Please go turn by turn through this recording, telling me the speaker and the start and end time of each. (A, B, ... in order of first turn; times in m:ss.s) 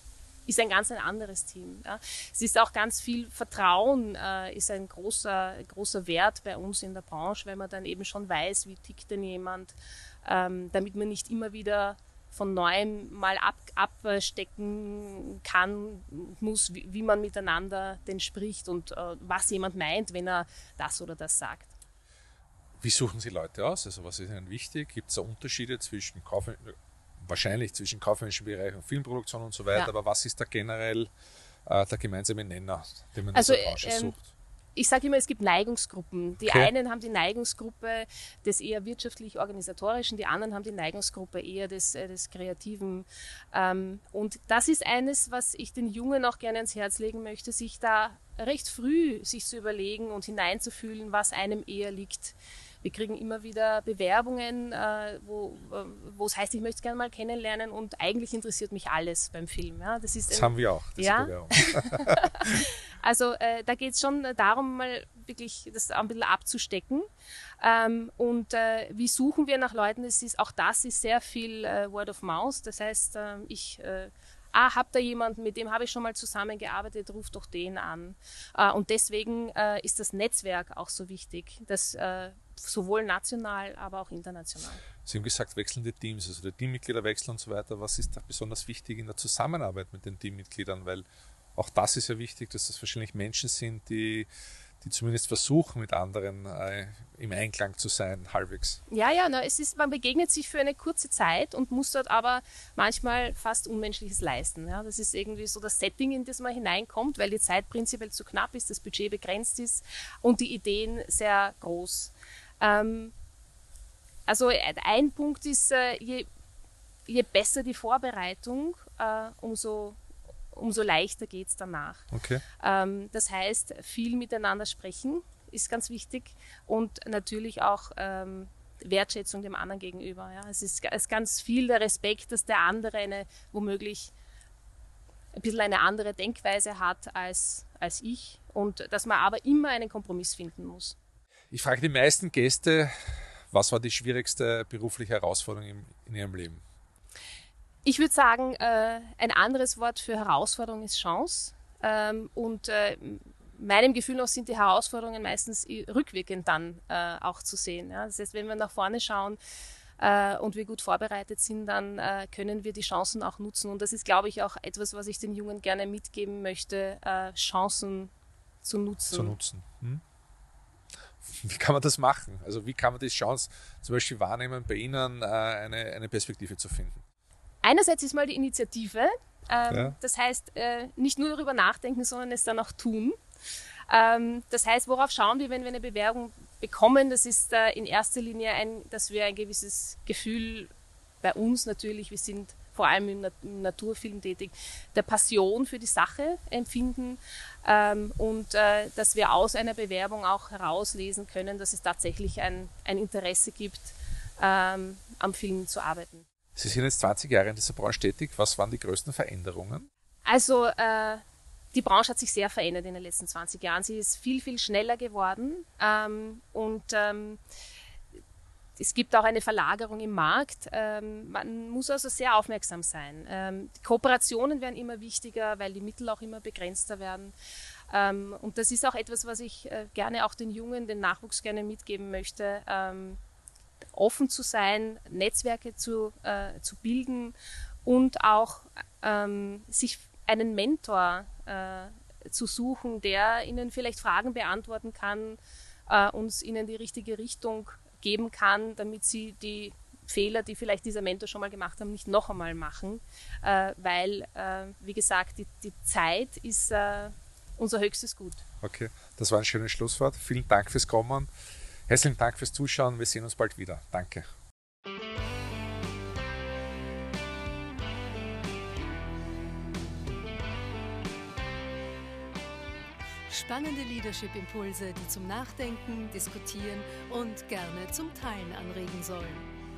0:00.5-0:21.7 A
0:22.8-0:31.1 B
0:31.7-0:34.3 B
0:33.3-0:34.2 A
0:34.8-1:07.1 A
0:36.4-0:36.7 B
1:00.3-1:02.6 B
1:07.6-1:24.8 A
1:25.1-1:31.0 B
1:31.6-1:34.3 B
1:34.8-1:38.8 B
1:38.9-1:53.1 A
1:54.3-1:56.3 A
1:57.1-2:00.0 A
2:00.5-2:14.1 A
2:02.1-2:02.4 B
2:15.3-2:21.0 A
2:21.5-2:26.6 B
2:27.8-2:39.4 A
2:40.0-2:48.1 A
2:48.6-2:49.4 A
2:49.1-2:50.0 B
2:51.2-2:57.0 B
2:57.6-3:03.2 A
2:59.7-3:00.0 B
3:03.9-3:10.7 A
3:11.2-3:26.2 A
3:26.6-3:29.9 B
3:30.3-3:37.4 A
3:38.8-3:47.3 A
3:47.9-3:53.2 A
3:54.0-4:18.4 A
4:18.6-4:21.3 B
4:21.9-4:24.3 B
4:33.3-4:39.5 C